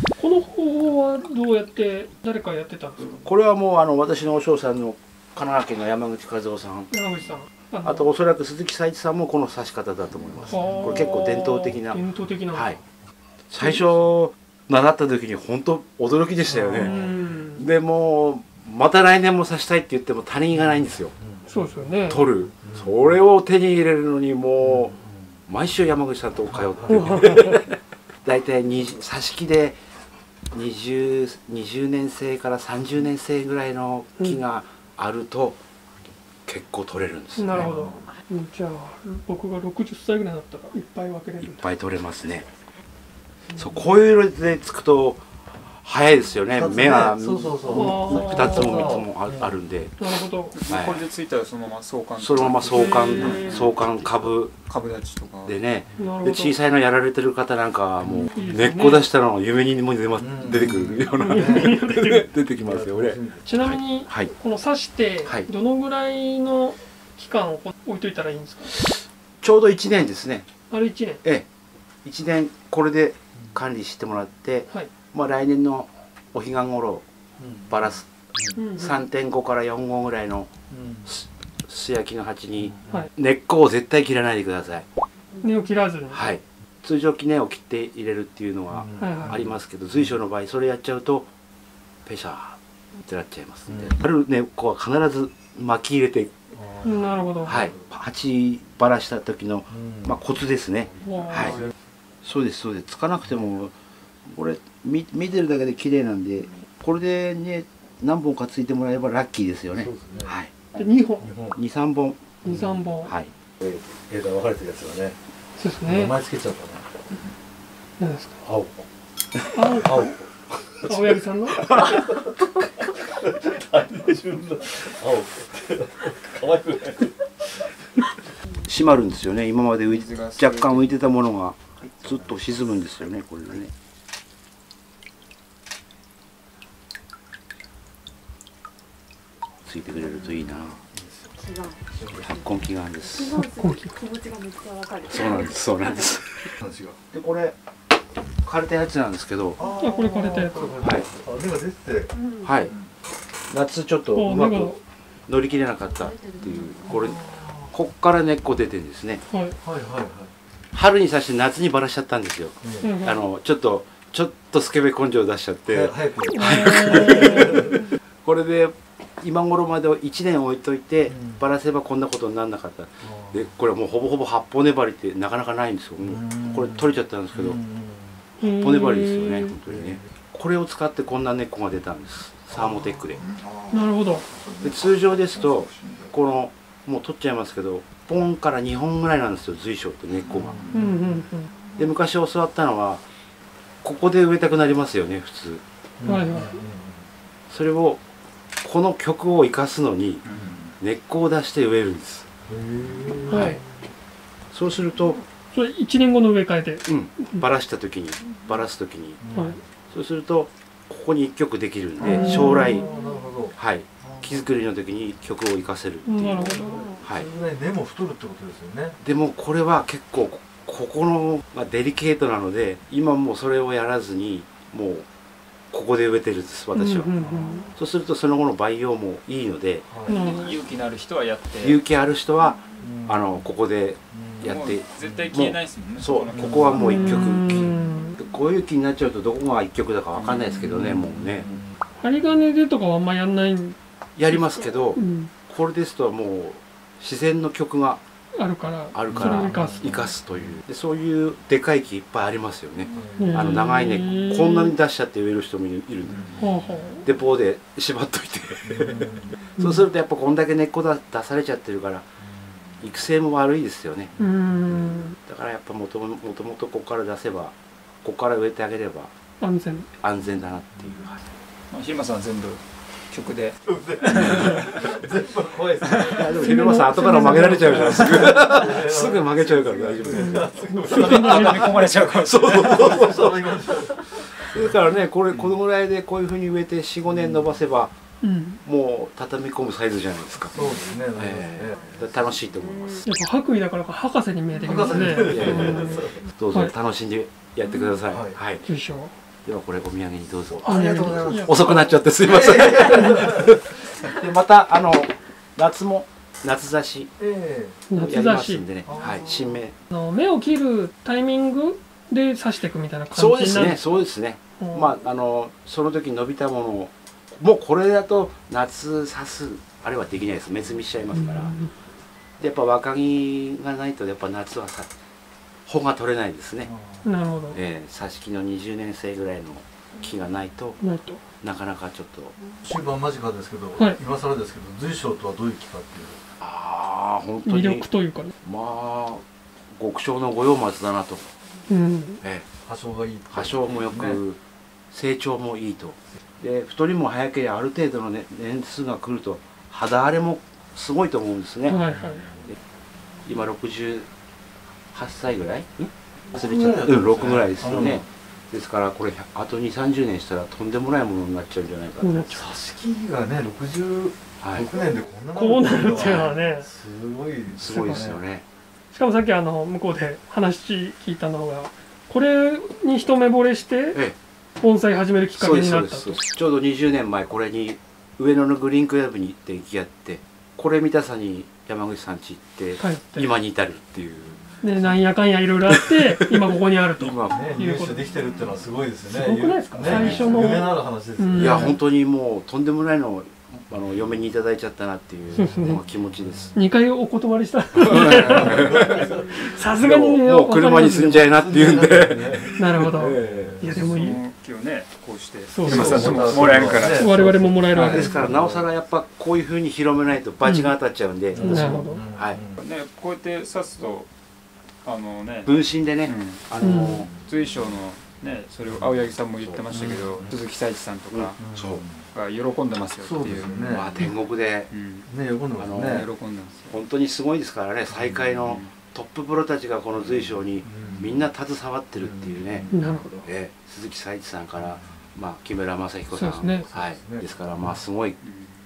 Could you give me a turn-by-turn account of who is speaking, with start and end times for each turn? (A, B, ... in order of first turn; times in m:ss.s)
0:00.2-0:03.2 A
0:03.2-0:06.9 B
0:06.9-0:08.1 A
0:07.8-0:12.0 B
0:10.4-0:12.8 A
0:10.5-0:11.0 C
0:12.5-0:12.8 B
0:13.5-0:21.1 B
0:16.6-0:17.0 C
0:16.7-0:17.7 A
0:21.2-0:21.5 C
0:21.5-0:22.2 A
0:22.1-0:25.0 B
0:22.6-0:22.9 C
0:24.6-0:25.3 C
0:25.5-0:29.8 B
0:26.6-0:27.3 C
0:27.0-0:27.5 A
0:30.5-0:35.6 B
0:36.4-0:37.7 B
0:37.4-0:41.6 A
0:37.5-0:38.0 C
0:41.4-0:42.5 B
0:43.6-0:45.2 B
0:45.8-0:49.9 B
0:46.5-0:49.5 C
0:47.7-0:49.0 A
0:50.0-0:50.6 A
0:50.5-0:55.6 D
0:50.7-0:51.0 B
0:52.2-0:54.5 B
0:53.2-0:53.5 C
0:55.4-1:04.3 B
0:56.0-0:56.6 A
0:58.0-0:58.3 C
0:58.3-0:59.1 A
1:00.2-1:01.7 C
1:01.1-1:02.3 A
1:02.6-1:03.5 C
1:03.4-1:08.7 A
1:08.7-1:10.5 B
1:10.7-1:11.2 A
1:12.0-1:17.0 B
1:17.4-1:18.6 C
1:17.7-1:18.1 B
1:18.6-1:19.0 A
1:18.8-1:20.5 B
1:20.7-1:21.1 C
1:21.0-1:24.9 B
1:22.7-1:23.0 C
1:25.4-1:26.2 A
1:26.1-1:31.3 B
1:28.7-1:30.1 C
1:29.0-1:29.4 A
1:32.0-1:36.3 B
1:33.7-1:34.0 C
1:36.5-1:37.8 C
1:36.8-1:37.6 A
1:37.4-1:41.6 B
1:39.7-1:40.2 C
1:41.0-1:41.6 A
1:41.5-1:41.7 C
1:42.2-1:43.7 B
1:44.3-1:50.5 B
1:49.8-1:50.3 C
1:50.7-1:51.3 A
1:51.2-1:51.6 C
1:51.5-1:52.4 B
1:52.4-1:53.1 A
1:53.0-1:55.1 B
1:54.0-1:55.1 C
1:55.6-1:56.1 A
1:55.8-1:56.8 C
1:58.0-1:58.4 A
1:58.4-1:58.7 C
1:59.5-2:00.1 A
1:59.6-2:01.1 C
2:00.8-2:01.6 A
2:01.7-2:07.1 C
2:08.6-2:13.7 B
2:09.9-2:10.9 D
2:11.8-2:12.2 D
2:19.6-2:20.8 B
2:20.7-2:21.3 C
2:21.4-2:22.4 E
2:21.9-2:22.2 C
2:22.2-2:23.4 B
2:23.1-2:26.0 E
2:23.4-2:23.9 A
2:25.1-2:26.5 B
2:26.6-2:27.0 C
2:27.1-2:27.6 B
2:28.4-2:29.6 B
2:29.6-2:32.1 C
2:29.8-2:30.7 A
2:30.8-2:31.1 B
2:32.2-2:32.4 E
2:32.4-2:32.7 B
2:33.5-2:34.7 B
2:34.1-2:34.8 A
2:35.3-2:39.2 B
2:36.1-2:37.0 E
2:36.9-2:37.7 C
2:39.3-2:39.6 A
2:39.6-2:40.3 C
2:40.7-2:57.6 B
2:42.6-2:42.9 C
2:42.8-2:43.2 A
2:45.7-2:47.8 C
2:46.3-2:47.6 A
2:51.1-2:51.4 C
2:53.0-2:53.4 C
2:56.0-2:58.2 C
2:58.4-2:59.5 A
2:58.4-3:03.2 B
2:59.6-3:00.0 C
3:02.5-3:06.1 C
3:03.7-3:04.2 A
3:04.6-3:10.6 B
3:10.2-3:11.1 C
3:10.7-3:11.5 A
3:11.8-3:13.0 B
3:13.8-3:15.6 B
3:16.0-3:17.0 C
3:16.0-3:16.6 A
3:17.5-3:18.0 B
3:18.6-3:20.2 B
3:20.3-3:20.6 D
3:20.3-3:20.6 C
3:20.8-3:22.3 B
3:22.5-3:23.6 C
3:23.3-3:23.6 A
3:24.5-3:25.2 B
3:25.5-3:27.4 A
3:26.9-3:29.2 B
3:29.2-3:29.6 C
3:29.3-3:29.6 A
3:29.9-3:32.8 B
3:32.0-3:33.1 A
3:32.0-3:34.4 C
3:33.6-3:37.3 B
3:36.0-3:37.0 A
3:36.4-3:39.0 C
3:39.0-3:45.1 B
3:45.7-3:47.1 B
3:46.7-3:47.7 A
3:47.2-3:47.6 C
3:47.7-3:49.9 B
3:49.9-3:50.2 C
3:50.1-3:50.6 A
3:50.1-3:51.8 D
3:51.6-4:01.5 B
3:52.8-3:53.5 C
3:54.1-3:54.6 C
3:54.4-3:56.8 D
3:56.3-3:57.1 C
3:56.7-3:58.2 A
4:00.1-4:00.6 D
4:00.6-4:01.8 C
4:02.0-4:03.8 A
4:04.2-4:08.0 B
4:05.0-4:05.3 A
4:08.4-4:09.9 A
4:08.9-4:16.3 B
4:09.1-4:10.6 C
4:12.9-4:13.6 C
4:13.2-4:14.7 A
4:16.1-4:17.0 C
4:16.4-4:17.0 A
4:17.0-4:22.0 B
4:18.6-4:19.4 C
4:19.6-4:19.8 A
4:22.8-4:24.1 B
4:24.2-4:25.2 A
4:24.7-4:29.1 B
4:29.4-4:29.9 A
4:30.0-4:31.2 B
4:31.7-4:34.8 D
4:33.6-4:36.3 C
4:35.9-4:36.2 D
4:36.1-4:41.6 B
4:36.3-4:38.2 A
4:38.0-4:41.8 C
4:40.1-4:41.5 A
4:40.9-4:43.0 D
4:42.2-4:43.4 B
4:42.3-4:44.7 C
4:44.4-4:47.9 B
4:47.1-4:47.5 C
4:48.2-4:48.6 A
4:48.6-4:50.6 B
4:50.5-4:52.1 C
4:51.2-4:53.0 B
4:53.0-4:56.7 A
4:54.6-4:56.2 C
4:55.1-4:58.6 B
4:58.1-4:58.4 C
4:58.6-4:59.1 A
4:59.4-5:07.1 B
5:00.6-5:03.6 C
5:00.6-5:01.6 A
5:07.2-5:07.9 C
5:07.9-5:08.6 A
5:07.9-5:09.7 B
5:08.8-5:09.6 C
5:09.9-5:14.0 A
5:13.1-5:21.5 B
5:14.6-5:14.9 A
5:21.1-5:21.7 A
5:22.4-5:24.9 B
5:25.7-5:26.7 B
5:26.7-5:27.0 C
5:27.0-5:27.6 A
5:27.5-5:30.8 B
5:30.8-5:31.2 A
5:31.4-5:32.3 B
5:32.6-5:36.2 C
5:36.4-5:37.8 B
5:37.4-5:38.3 A
5:38.4-5:39.2 B
5:39.8-5:41.3 B
5:41.7-5:42.2 A
5:42.2-5:42.4 B
5:42.6-5:44.2 C
5:43.3-5:44.4 B
5:44.9-5:51.8 B
5:51.6-5:52.3 A
5:53.2-5:54.1 B
5:54.9-6:02.4 B
5:56.3-5:58.0 C
6:02.0-6:02.4 A
6:02.3-6:08.2 C
6:04.4-6:04.7 B
6:05.3-6:06.7 A
6:07.5-6:08.4 B
6:07.7-6:08.1 A
6:08.9-6:14.0 A
6:14.6-6:16.2 A
6:15.4-6:25.0 B
6:22.8-6:23.3 A
6:24.6-6:28.2 A
6:25.7-6:26.3 B
6:27.0-6:27.5 B
6:27.3-6:31.8 C
6:29.0-6:31.8 A
6:29.8-6:30.3 B
6:31.4-6:36.5 B
6:35.4-6:35.8 A
6:35.5-6:36.5 C
6:36.5-6:41.4 A
6:37.8-6:43.6 B
6:38.0-6:38.9 D
6:38.1-6:39.3 C
6:41.3-6:43.9 C
6:42.6-6:44.2 A
6:43.6-6:48.1 D
6:45.5-6:48.1 A
6:45.6-6:48.7 C
6:47.8-6:52.4 B
6:50.4-6:50.7 A
6:51.3-6:52.6 C
6:51.4-6:52.0 A
6:52.6-6:54.1 D
6:54.8-6:55.5 D
6:55.4-6:57.1 B
6:56.0-6:56.5 D
6:56.6-6:57.1 A
6:57.1-7:01.4 D
6:59.7-7:00.3 C
7:01.1-7:01.8 B
7:01.4-7:02.0 C
7:02.1-7:04.1 D
7:02.9-7:03.9 C
7:03.7-7:04.7 B
7:04.7-7:05.1 D
7:05.1-7:06.1 C
7:05.6-7:06.1 B
7:05.7-7:06.7 D
7:06.7-7:12.7 B
7:07.9-7:08.5 C
7:10.6-7:11.3 C
7:12.0-7:13.3 C
7:12.7-7:13.2 A
7:13.2-7:18.2 B
7:14.6-7:14.9 C
7:16.1-7:16.7 A
7:16.6-7:17.7 C
7:18.2-7:18.5 D